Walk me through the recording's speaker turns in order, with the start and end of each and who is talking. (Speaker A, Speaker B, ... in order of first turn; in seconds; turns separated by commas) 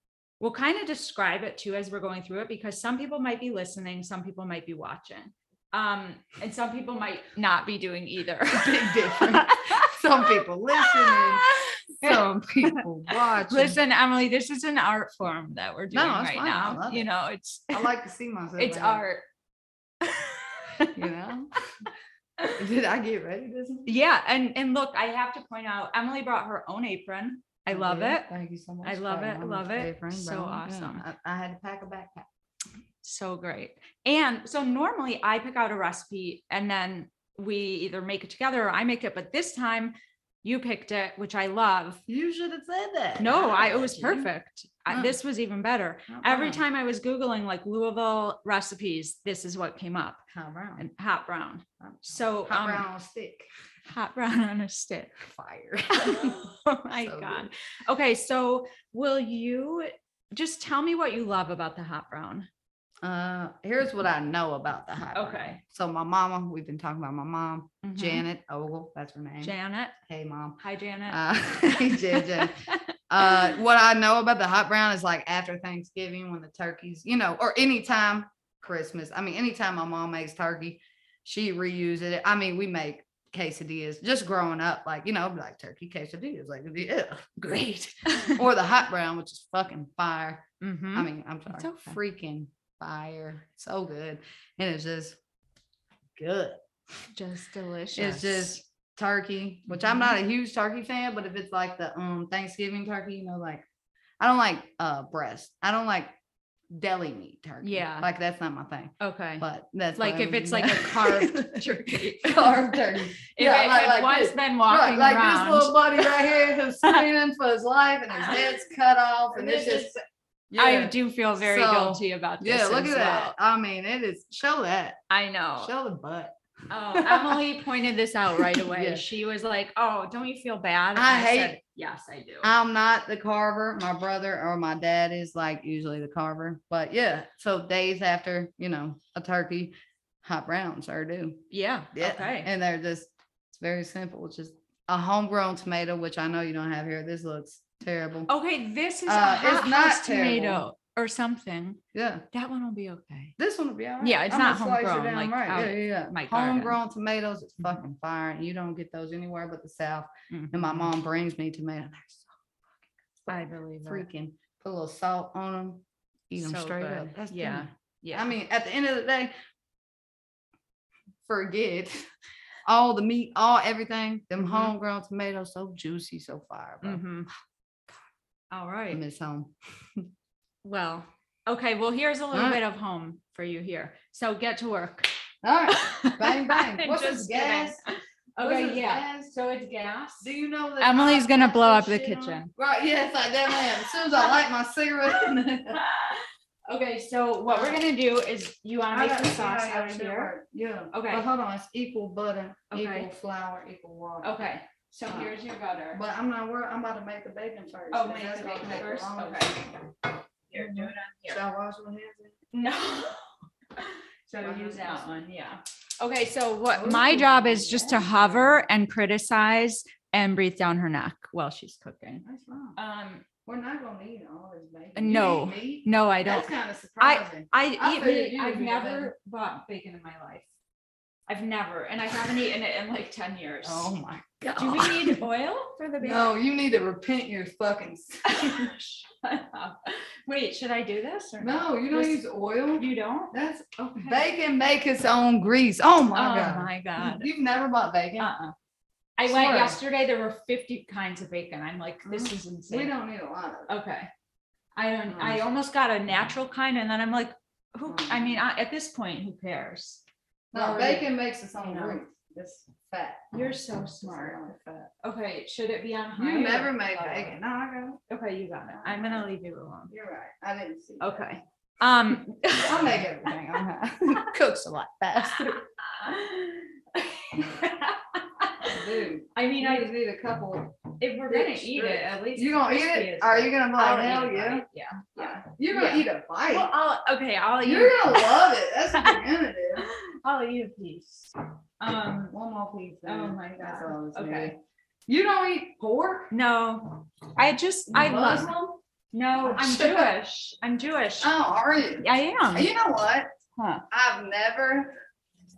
Speaker A: 0.4-17.9, Speaker B: 8.5-11.5, Speaker B: 12.0-13.8, Speaker B: 15.9-17.1, Speaker B: 17.7-19.0, Speaker A: 18.6-19.2, Speaker A: 20.0-21.0, Speaker B: 20.9-21.5, Speaker B: 22.5-23.9, Speaker A: 23.9-28.3, Speaker B: 27.7-32.3, Speaker A: 28.8-31.0, Speaker A: 33.0-42.0, Speaker B: 42.1-44.3, Speaker A: 43.2-50.2, Speaker B: 46.1-46.6, Speaker B: 50.3-50.9, Speaker A: 50.8-52.9, Speaker B: 51.8-53.5, Speaker A: 53.9-55.2, Speaker B: 55.2-57.5, Speaker A: 55.9-62.5, Speaker B: 63.0-69.5, Speaker A: 65.1-65.6, Speaker A: 67.8-68.2, Speaker A: 69.4-69.9, Speaker B: 70.0-72.6, Speaker A: 70.6-73.5, Speaker B: 73.1-95.2, Speaker A: 88.0-88.4, Speaker A: 90.6-92.0, Speaker B: 96.2-96.6, Speaker A: 97.1-98.5, Speaker B: 97.9-103.6, Speaker A: 99.7-100.2, Speaker B: 104.2-106.1, Speaker B: 106.7-119.9, Speaker A: 107.6-108.1, Speaker A: 109.0-109.4, Speaker A: 110.0-117.0, Speaker A: 118.1-118.4, Speaker A: 119.3-120.0, Speaker B: 120.5-125.0, Speaker A: 120.5-123.3, Speaker A: 125.1-125.7, Speaker B: 125.6-126.3, Speaker A: 126.7-132.5, Speaker B: 126.9-127.4, Speaker B: 128.3-129.0, Speaker B: 130.9-131.6, Speaker B: 132.4-141.4, Speaker A: 141.5-142.5, Speaker B: 141.9-148.3, Speaker A: 148.3-151.8, Speaker B: 149.1-150.7, Speaker B: 151.9-152.2, Speaker A: 152.3-153.3, Speaker B: 153.4-162.3, Speaker A: 154.0-156.8, Speaker A: 160.3-160.9, Speaker B: 163.2-169.3, Speaker A: 163.3-164.1, Speaker A: 166.4-168.3, Speaker B: 171.2-172.1, Speaker B: 172.7-177.0, Speaker A: 174.4-174.7, Speaker A: 176.8-177.3, Speaker A: 178.5-179.0, Speaker B: 178.9-180.1, Speaker A: 180.6-185.1, Speaker B: 182.3-182.6, Speaker B: 185.4-187.8, Speaker A: 185.7-192.5, Speaker B: 188.4-189.3, Speaker B: 190.2-195.8, Speaker A: 195.2-200.3, Speaker B: 197.5-197.8, Speaker B: 198.9-204.5, Speaker A: 200.9-201.2, Speaker A: 202.7-203.1, Speaker A: 204.2-206.0, Speaker B: 205.1-205.3, Speaker B: 205.9-209.7, Speaker A: 207.9-209.7, Speaker A: 210.5-211.4, Speaker B: 210.5-212.4, Speaker A: 212.5-222.2, Speaker B: 214.3-215.1, Speaker B: 216.7-218.6, Speaker B: 222.2-222.8, Speaker A: 222.8-223.2, Speaker B: 223.4-229.1, Speaker A: 224.9-230.5, Speaker A: 231.3-233.9, Speaker B: 233.6-235.2, Speaker A: 234.6-236.3, Speaker B: 236.0-238.7, Speaker A: 238.2-242.2, Speaker B: 241.4-248.3, Speaker A: 242.8-244.2, Speaker A: 246.1-247.3, Speaker A: 248.2-248.5, Speaker A: 249.2-252.9, Speaker B: 249.2-249.8, Speaker B: 252.1-253.7, Speaker A: 253.7-254.1, Speaker A: 254.7-262.0, Speaker B: 255.1-255.4, Speaker B: 257.9-258.4, Speaker B: 260.5-263.3, Speaker A: 263.3-264.4, Speaker B: 264.0-264.9, Speaker A: 265.0-267.3, Speaker B: 266.2-268.0, Speaker A: 268.1-269.9, Speaker B: 268.7-269.3, Speaker B: 269.9-271.3, Speaker A: 271.0-273.4, Speaker B: 272.6-275.6, Speaker A: 275.3-278.8, Speaker B: 278.6-284.6, Speaker A: 279.3-279.9, Speaker A: 281.0-289.2, Speaker B: 285.1-286.7, Speaker B: 287.6-289.9, Speaker A: 289.8-292.3, Speaker B: 292.3-296.3, Speaker A: 293.1-294.5, Speaker A: 296.3-298.5, Speaker B: 297.9-298.8, Speaker A: 299.1-301.3, Speaker B: 299.4-300.1, Speaker B: 301.2-303.3, Speaker A: 302.0-302.7, Speaker A: 303.6-303.8, Speaker B: 303.9-304.9